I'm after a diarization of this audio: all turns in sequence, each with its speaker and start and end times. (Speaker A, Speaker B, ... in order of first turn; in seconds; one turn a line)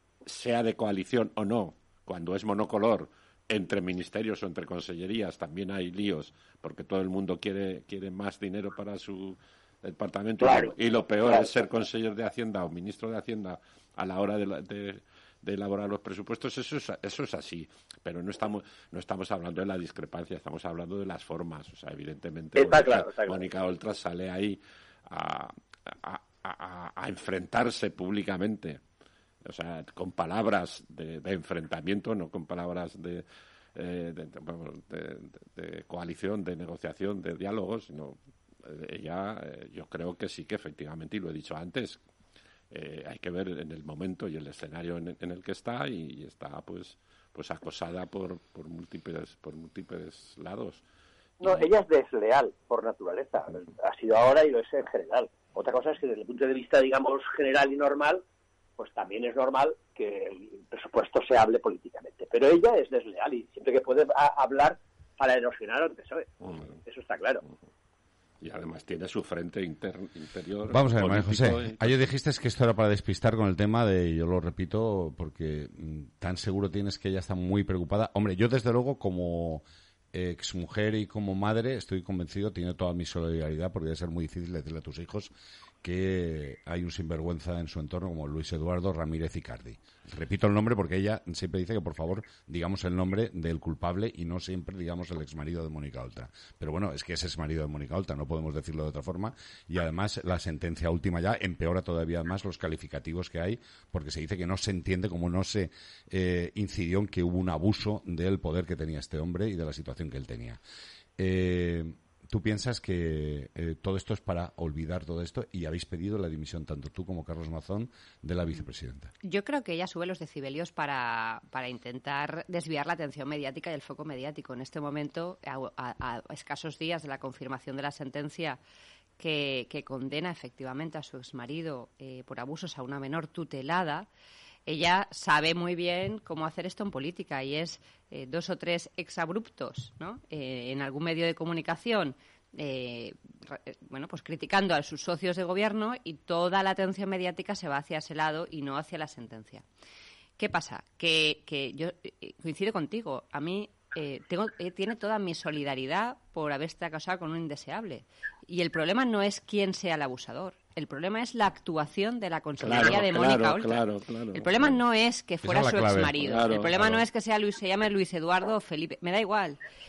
Speaker A: 0.2-28.8
Speaker B: 10.4-11.6
Speaker B: 22.6-23.4
Speaker A: 29.4-33.2
Speaker A: 33.8-42.0
Speaker A: 42.7-50.8
Speaker B: 51.4-58.2
Speaker A: 51.4-51.7
Speaker B: 58.8-66.3
Speaker A: 66.4-66.7
Speaker B: 66.8-67.4
Speaker A: 68.4-71.9
Speaker C: 70.7-85.3
Speaker C: 85.8-110.6
Speaker C: 111.2-119.1
Speaker D: 119.2-128.6
Speaker D: 129.2-134.1
Speaker D: 134.7-149.6
Speaker D: 150.4-169.6
Speaker A: 162.6-164.8
Speaker C: 165.4-166.2
Speaker A: 166.2-167.0